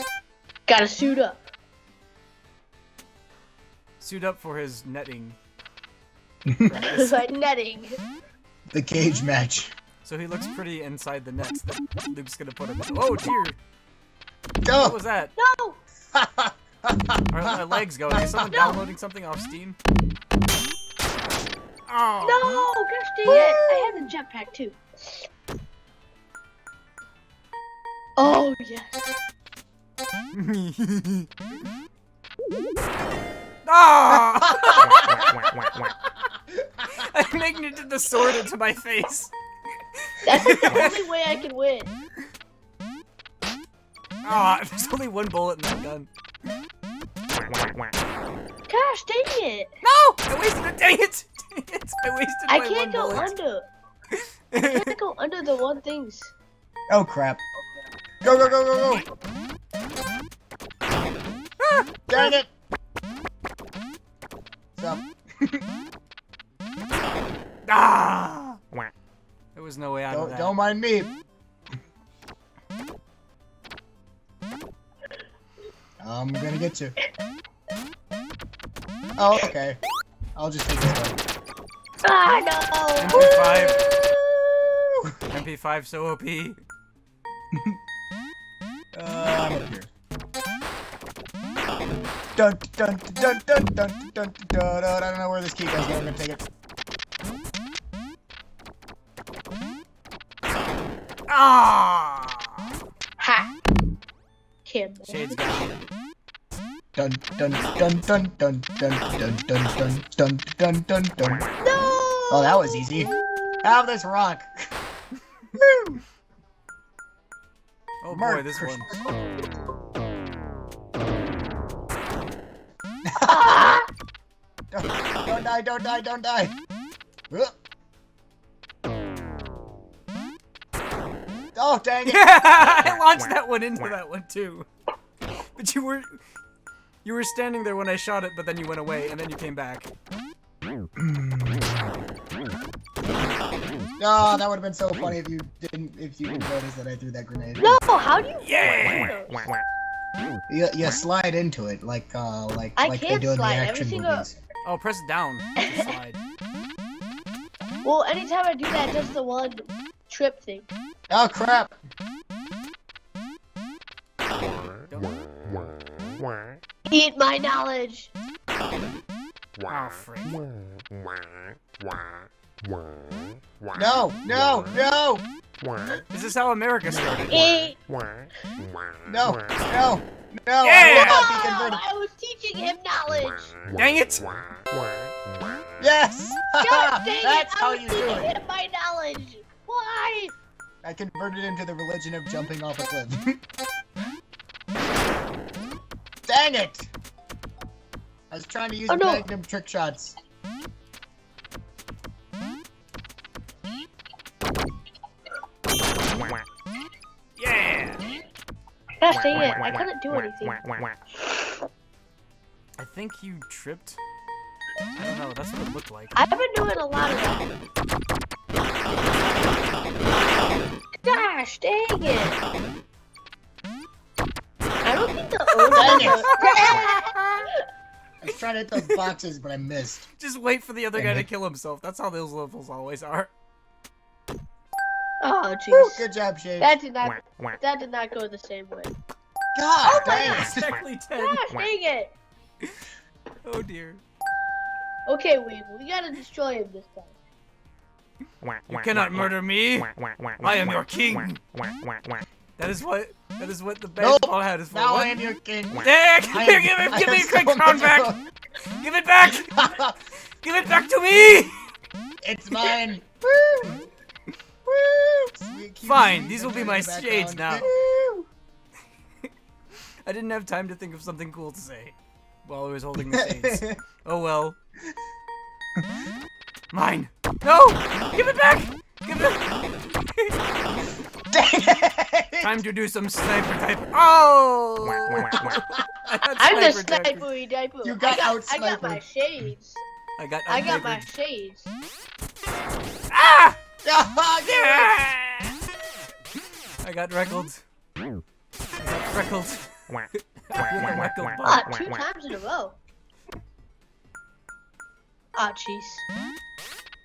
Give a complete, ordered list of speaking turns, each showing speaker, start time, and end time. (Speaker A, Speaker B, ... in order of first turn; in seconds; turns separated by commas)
Speaker A: 0.7-1.4, Speaker B: 4.0-5.4, Speaker C: 6.5-6.8, Speaker B: 6.7-7.2, Speaker A: 6.8-8.0, Speaker C: 8.7-9.7, Speaker B: 10.1-13.6, Speaker C: 14.6-15.0, Speaker B: 14.7-15.3, Speaker A: 15.4-15.8, Speaker C: 16.1-18.5, Speaker B: 17.3-19.8, Speaker A: 18.5-18.8, Speaker B: 21.9-22.7, Speaker A: 22.2-25.2, Speaker C: 23.3-24.1, Speaker A: 28.2-29.1, Speaker B: 30.3-31.3, Speaker B: 33.6-35.2, Speaker C: 34.1-35.3, Speaker C: 36.5-36.9, Speaker B: 37.0-39.3, Speaker B: 40.0-41.0, Speaker A: 40.2-41.9, Speaker B: 44.2-46.1, Speaker A: 48.7-49.7, Speaker B: 49.8-53.3, Speaker A: 52.5-53.7, Speaker B: 54.1-55.0, Speaker A: 54.6-56.3, Speaker C: 56.9-57.4, Speaker C: 58.2-59.0, Speaker B: 61.6-61.9, Speaker C: 62.1-62.5, Speaker C: 64.8-65.6, Speaker B: 67.7-68.6, Speaker B: 69.5-70.5, Speaker C: 70.1-71.1, Speaker C: 76.0-76.9, Speaker C: 79.2-79.8, Speaker C: 80.4-81.2, Speaker A: 82.0-83.7, Speaker B: 83.0-83.8, Speaker C: 83.1-85.2, Speaker B: 85.3-86.6, Speaker C: 87.5-87.8, Speaker C: 88.9-89.9, Speaker C: 92.4-96.4, Speaker B: 101.3-102.7, Speaker A: 103.2-103.5, Speaker A: 104.7-105.5, Speaker B: 105.1-105.8, Speaker C: 106.9-111.5, Speaker A: 111.6-113.7, Speaker C: 112.3-114.5, Speaker C: 115.5-116.0, Speaker B: 118.0-119.0, Speaker C: 118.1-119.0, Speaker C: 123.1-123.8, Speaker A: 123.2-123.9, Speaker C: 124.7-126.6, Speaker C: 127.3-127.6, Speaker C: 131.5-132.5, Speaker B: 132.1-134.7, Speaker B: 135.6-136.2, Speaker B: 137.0-139.9, Speaker C: 141.0-141.9, Speaker C: 144.0-147.8, Speaker A: 147.6-149.5, Speaker B: 148.4-149.2, Speaker C: 150.5-154.3, Speaker A: 152.8-154.2, Speaker B: 154.7-156.2, Speaker A: 155.6-155.9, Speaker A: 157.8-160.7, Speaker C: 161.1-161.8, Speaker B: 164.9-165.7, Speaker A: 166.9-168.1, Speaker B: 169.7-170.4, Speaker C: 173.7-176.0, Speaker B: 176.1-177.5, Speaker A: 177.3-177.8, Speaker C: 179.1-181.8, Speaker B: 180.6-181.2, Speaker A: 180.8-183.6, Speaker B: 183.7-184.4, Speaker C: 185.8-188.3, Speaker A: 186.6-190.3, Speaker C: 190.8-193.4, Speaker C: 196.3-196.9, Speaker C: 198.3-200.2, Speaker A: 198.9-199.2, Speaker B: 207.4-208.0, Speaker A: 209.0-210.6, Speaker A: 211.1-211.6, Speaker B: 212.8-214.0, Speaker B: 215.0-216.2, Speaker A: 216.2-217.5, Speaker A: 221.0-222.4, Speaker A: 224.8-227.5, Speaker B: 225.6-227.5, Speaker C: 225.7-226.3, Speaker C: 228.2-230.1, Speaker B: 230.2-233.3, Speaker C: 231.0-231.2, Speaker A: 235.2-236.0, Speaker C: 235.7-236.8, Speaker A: 236.6-238.9, Speaker C: 239.6-240.8, Speaker A: 239.8-240.6, Speaker B: 239.9-241.4, Speaker A: 241.2-242.1, Speaker B: 243.4-244.0, Speaker A: 245.1-247.1, Speaker B: 248.7-251.4, Speaker B: 252.6-255.2, Speaker C: 254.0-258.2, Speaker B: 255.8-258.1, Speaker B: 258.8-259.6, Speaker C: 259.5-260.0, Speaker B: 260.4-261.7, Speaker C: 262.2-263.9, Speaker C: 264.7-268.3, Speaker B: 265.8-267.7, Speaker B: 270.1-274.6, Speaker C: 273.1-273.8, Speaker B: 276.7-280.4, Speaker C: 281.3-282.6, Speaker B: 282.4-287.2, Speaker C: 285.5-285.9, Speaker A: 286.4-289.8, Speaker C: 287.8-289.0, Speaker B: 290.2-291.1, Speaker A: 290.5-291.7, Speaker B: 293.1-293.6, Speaker C: 293.8-294.9, Speaker B: 294.4-295.6, Speaker B: 296.8-297.6, Speaker B: 298.8-301.6, Speaker A: 301.4-302.8, Speaker A: 305.4-306.0